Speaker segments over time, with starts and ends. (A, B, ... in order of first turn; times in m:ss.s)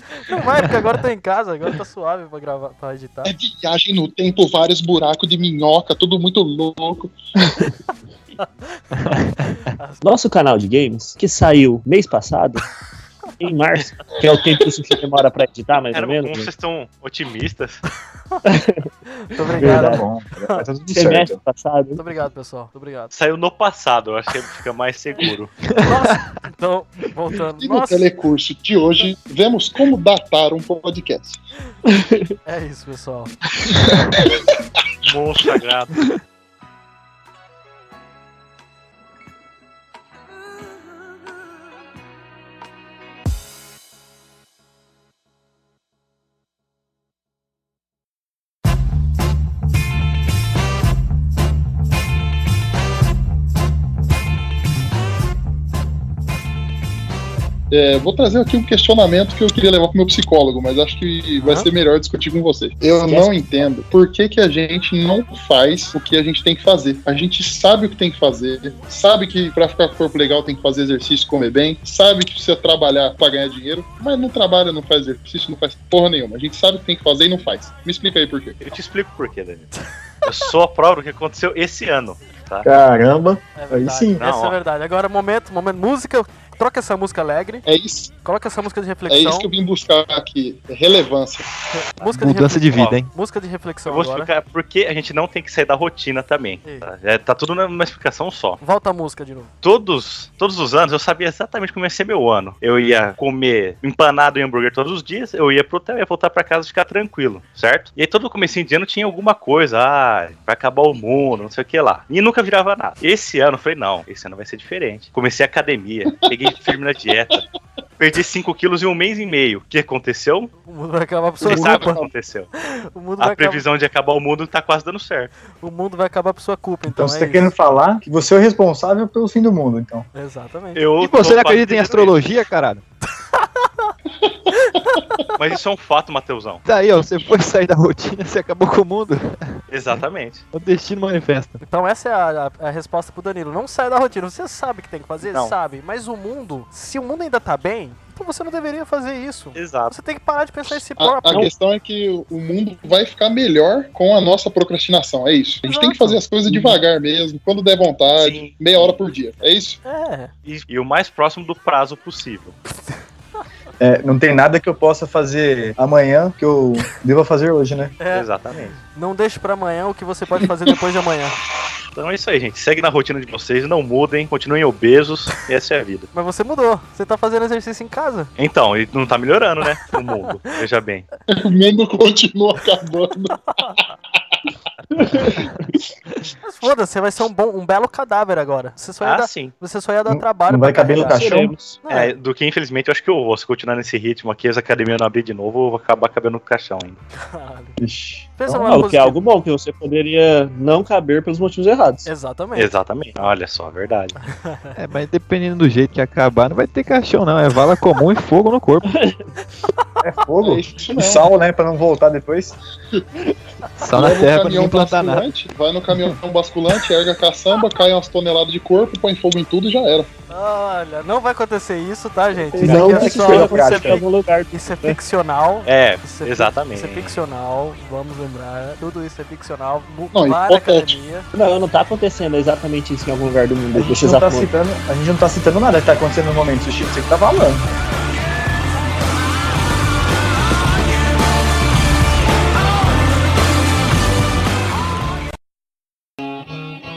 0:00.2-0:03.3 A
0:03.2-0:07.2 B
0:09.0-0:09.6 C
0:09.1-0:10.0 A
0:10.0-0:12.7 D
0:13.4-0:16.5 D
0:15.9-0:17.8 E
0:18.5-0:18.9 D
0:19.1-0:20.6 A
0:19.6-0:20.0 D
0:19.6-0:21.4 F
0:20.9-0:22.0 D
0:22.0-0:23.1 A
0:23.1-0:25.5 E
0:25.7-0:26.4 C
0:25.8-0:28.1 A
0:27.6-0:31.4 B
0:31.9-0:32.3 D
0:32.4-0:33.3 A
0:35.0-0:36.0 E
0:57.7-1:18.6 B
1:01.4-1:01.7 A
1:03.0-1:03.7 D
1:18.6-1:19.7 E
1:20.2-1:22.7 E
1:22.6-1:24.2 F
1:23.6-1:27.6 A
1:24.2-1:24.6 E
1:27.7-1:28.1 B
1:28.2-1:29.5 A
1:29.1-1:31.5 B
1:31.7-1:34.3 A
1:32.0-1:33.1 C
1:33.9-1:38.6 E
1:38.6-1:39.5 A
1:39.6-1:57.4 E
1:58.0-2:00.5 E
2:00.6-2:02.1 A
2:01.4-2:02.5 E
2:01.4-2:02.0 B
2:02.6-2:03.6 A
2:03.2-2:05.3 E
2:05.5-2:07.5 A
2:07.0-2:10.1 F
2:10.1-2:10.8 A
2:10.8-2:12.2 E
2:11.0-2:12.8 C
2:13.3-2:13.9 A
2:14.5-2:15.0 A
2:15.4-2:16.6 E
2:16.6-2:19.6 C
2:19.7-2:20.4 E
2:20.5-2:21.6 C
2:21.6-2:31.4 A
2:25.2-2:25.6 E
2:29.6-2:30.0 E
2:31.0-2:39.8 B
2:35.6-2:36.2 A
2:38.2-2:39.0 E
2:39.8-2:40.3 A
2:40.5-2:42.6 E
2:43.8-2:47.9 F
2:48.0-2:51.4 A
2:48.1-2:48.8 E
2:52.0-2:56.1 E
2:56.1-2:58.3 A
2:58.4-3:01.1 E
3:01.3-3:03.4 B
3:03.6-3:03.8 A
3:05.1-3:05.5 B
3:06.4-3:11.2 A
3:09.0-3:09.5 E
3:10.1-3:11.5 F
3:10.8-3:11.8 D
3:11.8-3:12.1 A
3:11.9-3:17.0 E
3:17.2-3:17.8 A
3:17.8-3:18.9 F
3:18.4-3:19.2 A
3:18.6-3:22.1 D
3:22.1-3:22.7 A
3:22.6-3:24.2 E
3:24.2-3:24.8 A
3:24.8-3:28.9 C
3:30.0-3:32.6 F
3:30.4-3:31.3 B
3:33.8-3:35.3 C
3:33.9-3:40.1 B
3:35.9-3:36.2 F
3:40.3-3:51.3 A
3:42.5-3:44.0 F
3:42.5-3:45.0 D
3:45.7-3:47.2 E
3:50.1-3:51.0 B
3:51.3-3:54.5 D
3:53.7-3:57.6 F